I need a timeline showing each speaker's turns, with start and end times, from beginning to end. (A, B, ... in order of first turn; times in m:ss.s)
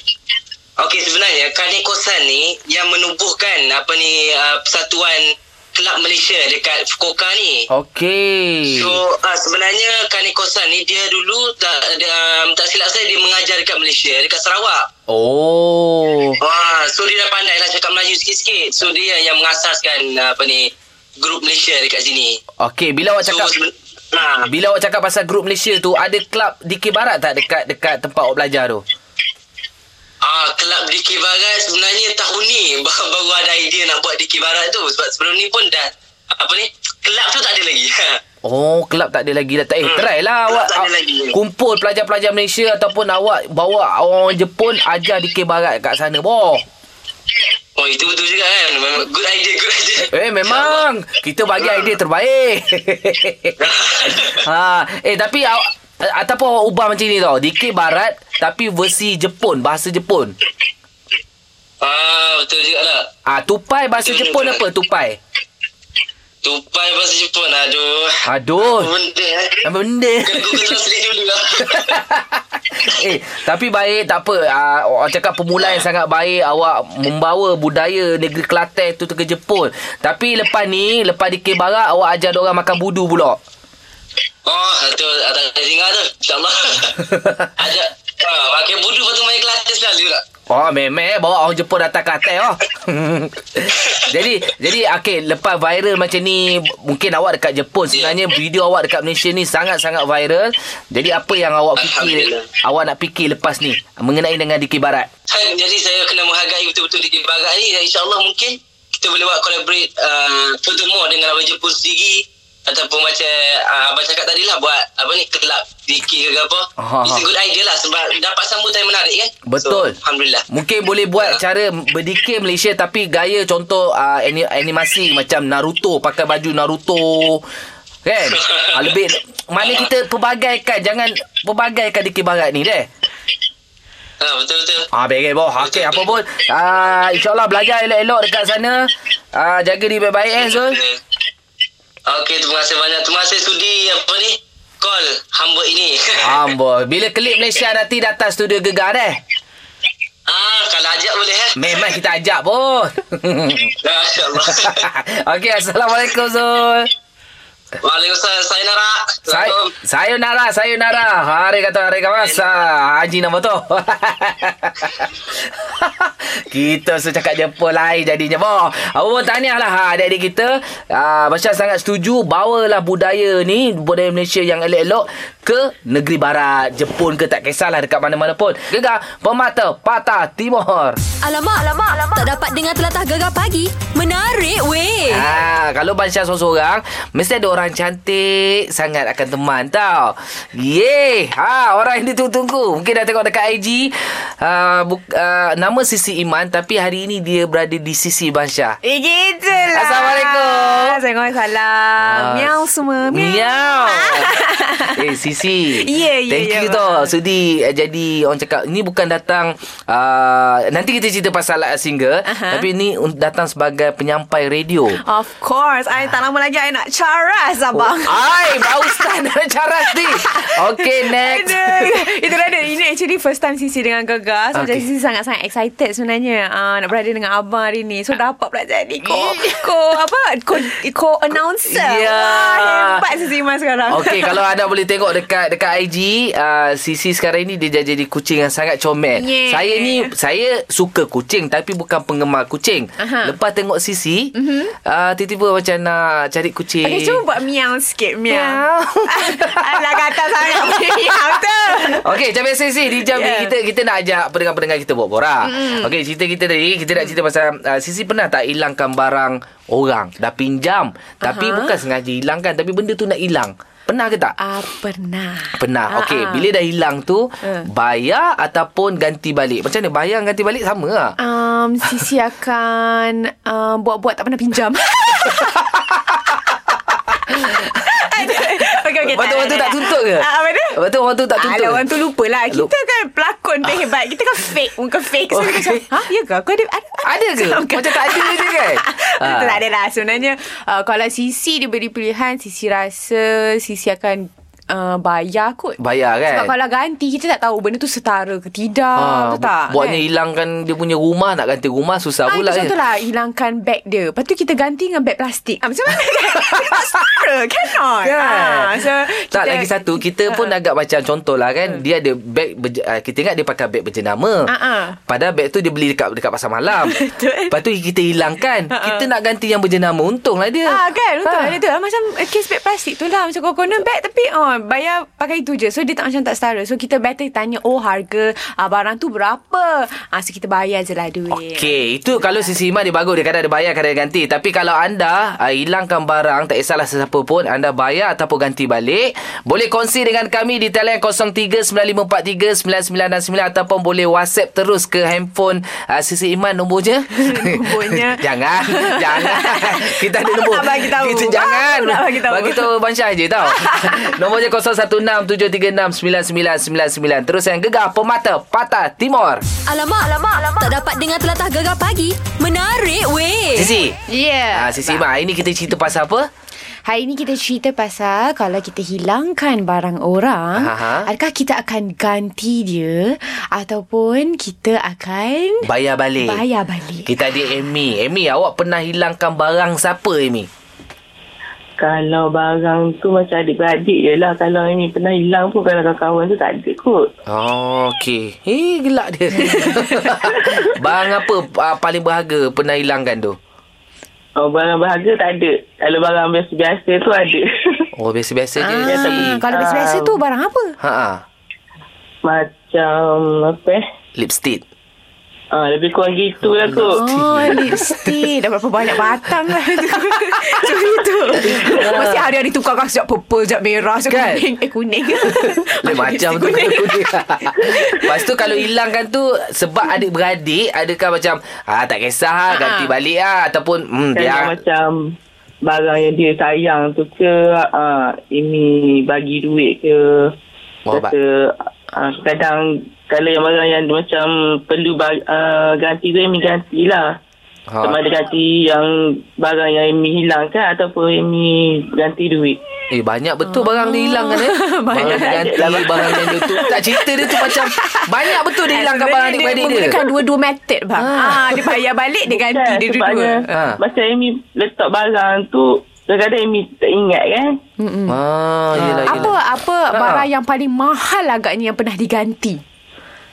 0:00.8-0:07.7 A
0:07.7-0:09.0 B
0:08.7-0:14.9 A
0:15.1-0:16.4 B
0:16.4-0:22.4 A
0:22.6-0:23.5 B
0:23.2-0:24.5 A
0:24.4-0:28.8 B
0:30.2-0:38.2 A
0:38.4-0:46.6 B
0:39.8-0:41.3 A
0:47.8-0:50.8 A
0:50.1-1:00.3 B
0:51.6-0:51.9 A
0:53.6-0:54.4 A
1:01.8-1:03.1 A
1:03.3-1:05.2 B
1:04.0-1:04.6 A
1:06.4-1:09.6 A
1:08.2-1:08.9 B
1:09.6-1:10.8 B
1:10.2-1:12.0 A
1:11.6-1:23.4 B
1:24.4-1:30.2 A
1:27.1-1:27.5 B
1:30.5-1:45.1 B
1:37.9-1:38.2 A
1:41.8-1:42.5 A
1:45.3-2:00.4 A
1:56.8-1:57.2 B
1:59.5-2:00.0 B
2:00.5-2:07.4 B
2:08.0-2:12.9 B
2:08.4-2:08.8 A
2:14.2-2:14.9 A
2:14.9-2:20.8 B
2:15.6-2:16.2 A
2:20.4-2:21.0 A
2:22.1-2:26.5 A
2:26.2-2:29.2 B
2:30.3-2:32.0 A
2:31.6-2:33.7 B
2:33.8-2:34.8 A
2:34.3-2:36.9 B
2:37.8-2:39.7 A
2:39.3-3:01.0 B
2:42.2-2:42.5 A
3:01.2-3:05.2 C
3:05.1-3:18.8 B
3:18.8-3:25.0 D
3:19.7-3:21.0 B
3:22.0-3:24.4 B
3:24.9-3:35.0 B
3:25.7-3:27.1 D
3:32.3-3:32.6 D
3:35.0-3:39.1 D
3:37.7-3:42.0 B
3:39.9-3:54.4 D
3:44.5-3:44.8 B
3:49.0-3:49.5 B
3:51.6-3:53.1 B
3:53.9-4:04.3 B
3:59.2-4:00.1 D
4:03.0-4:03.4 D
4:04.4-4:04.7 D
4:04.8-4:07.2 B
4:06.8-4:12.2 D
4:08.3-4:24.4 B
4:13.0-4:13.5 D
4:15.4-4:15.9 D
4:21.2-4:21.8 D
4:24.4-4:26.5 D
4:25.6-4:31.2 B
4:27.4-4:27.7 D
4:31.2-4:35.7 D
4:35.6-4:36.2 B
4:37.3-4:41.8 B
4:37.3-4:40.8 D
4:41.4-4:55.8 D
4:45.3-4:45.8 B
4:47.0-4:49.6 B
4:55.8-4:56.5 B
4:56.3-5:00.0 D
4:58.9-5:02.7 B
5:02.3-5:10.5 D
5:08.0-5:14.5 B
5:14.5-5:15.0 D
5:15.1-5:21.6 B
5:16.8-5:17.5 D
5:18.7-5:19.0 D
5:20.6-5:32.5 D
5:31.3-5:59.4 B
5:47.2-5:52.7 D
5:53.5-5:54.2 D
5:59.7-6:03.7 C
6:03.5-6:04.0 B
6:04.1-6:05.0 D
6:04.5-6:06.3 B
6:06.8-6:15.7 D
6:10.6-6:11.1 B
6:15.6-6:16.4 B
6:16.2-6:17.2 D
6:17.0-6:20.5 B
6:21.8-6:27.1 E
6:27.3-6:33.4 B
6:29.5-6:30.1 D
6:34.4-6:37.9 E
6:37.9-6:39.4 B
6:38.6-6:40.7 D
6:38.8-6:40.2 E
6:40.8-6:41.2 B
6:42.2-6:43.8 E
6:44.2-6:44.6 B
6:45.5-6:47.0 E
6:46.6-6:48.2 B
6:46.9-6:57.1 D
6:51.4-6:52.1 E
6:51.7-6:52.3 B
6:54.1-6:54.4 B
6:55.1-7:04.5 B
7:02.5-7:02.9 D
7:04.1-7:05.1 E
7:05.6-7:10.3 E
7:10.9-7:11.1 B
7:10.9-7:17.2 E
7:17.7-7:18.0 B
7:17.8-7:22.6 E
7:22.9-7:30.0 B
7:23.5-7:33.5 D
7:24.9-7:26.8 E
7:31.0-7:31.8 B
7:32.3-7:37.6 E
7:33.5-7:33.8 B
7:37.8-7:38.2 D
7:38.1-7:39.4 B
7:38.7-7:42.6 D
7:39.9-7:40.3 B